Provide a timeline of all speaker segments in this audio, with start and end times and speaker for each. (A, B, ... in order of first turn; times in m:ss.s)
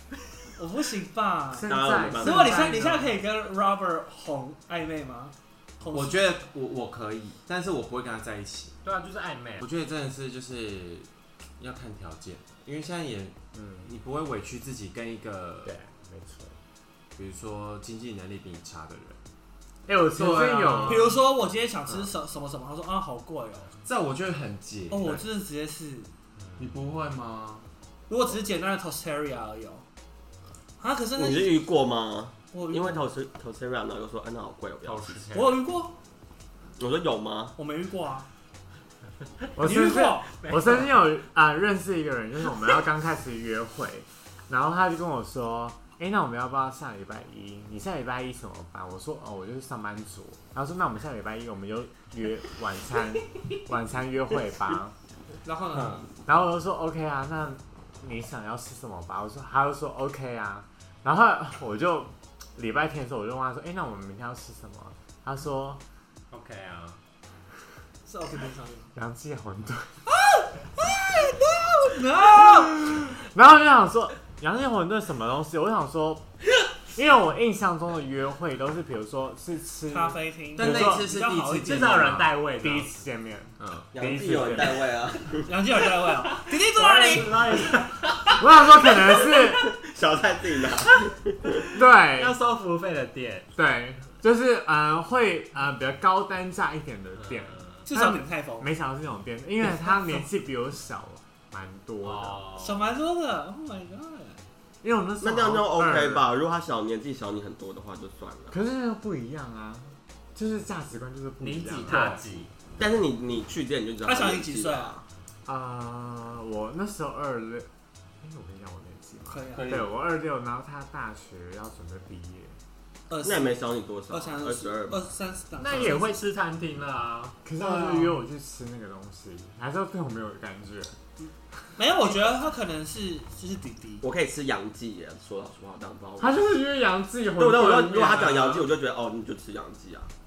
0:00.6-0:06.2 A
0:01.5-0:03.1 B
0:01.7-0:02.6 C
0:05.9-0:08.8 D
0:08.8-0:09.7 E
0:09.6-0:11.1 D
0:11.6-0:15.8 D
0:13.5-0:13.9 B
0:15.6-0:16.6 B
0:17.2-0:19.2 D
0:19.9-0:21.2 B
0:20.2-0:21.2 D
0:20.9-0:23.8 A
0:23.8-0:25.2 D
0:24.9-0:26.1 A
0:26.6-0:27.7 D
0:28.1-0:29.8 A
0:30.8-0:31.7 A
0:31.2-0:35.2 C
0:32.5-0:33.0 A
0:34.8-0:35.6 E
0:35.3-0:36.0 A
0:36.8-0:37.6 C
0:37.6-0:38.3 A
0:39.6-0:54.9 B
0:39.6-0:40.9 A
0:40.4-0:40.8 E
0:55.4-0:56.0 A
0:55.7-0:56.1 D
0:56.3-1:05.8 B
1:06.3-1:07.0 E
1:08.0-1:08.9 A
1:09.0-1:10.0 B
1:10.1-1:13.0 A
1:12.4-1:16.2 B
1:16.9-1:21.0 B
1:19.9-1:22.1 A
1:20.6-1:22.4 D
1:21.6-1:22.9 E
1:22.6-1:24.9 B
1:23.6-1:23.9 D
1:23.9-1:25.5 C
1:25.5-1:27.8 A
1:26.2-1:28.4 E
1:28.4-1:29.7 B
1:29.3-1:31.6 C
1:31.7-1:32.4 B
1:32.0-1:33.5 E
1:33.6-1:42.4 B
1:37.2-1:37.8 E
1:37.9-1:38.7 A
1:39.6-1:40.3 A
1:42.0-1:42.9 E
1:42.6-1:44.4 A
1:44.8-1:46.3 B
1:45.2-1:48.6 C
1:48.5-1:52.2 B
1:51.4-1:52.5 E
1:51.9-1:52.2 A
1:52.8-1:55.0 C
1:54.0-1:55.0 A
1:55.5-1:57.7 B
1:58.2-2:02.6 B
1:59.3-1:59.7 A
1:59.6-1:59.9 D
2:03.1-2:03.6 A
2:03.2-2:05.1 C
2:04.1-2:06.2 A
2:05.6-2:07.4 E
2:07.4-2:11.0 B
2:07.6-2:08.2 A
2:11.8-2:14.0 A
2:14.0-2:16.4 C
2:16.2-2:18.7 B
2:17.4-2:20.1 C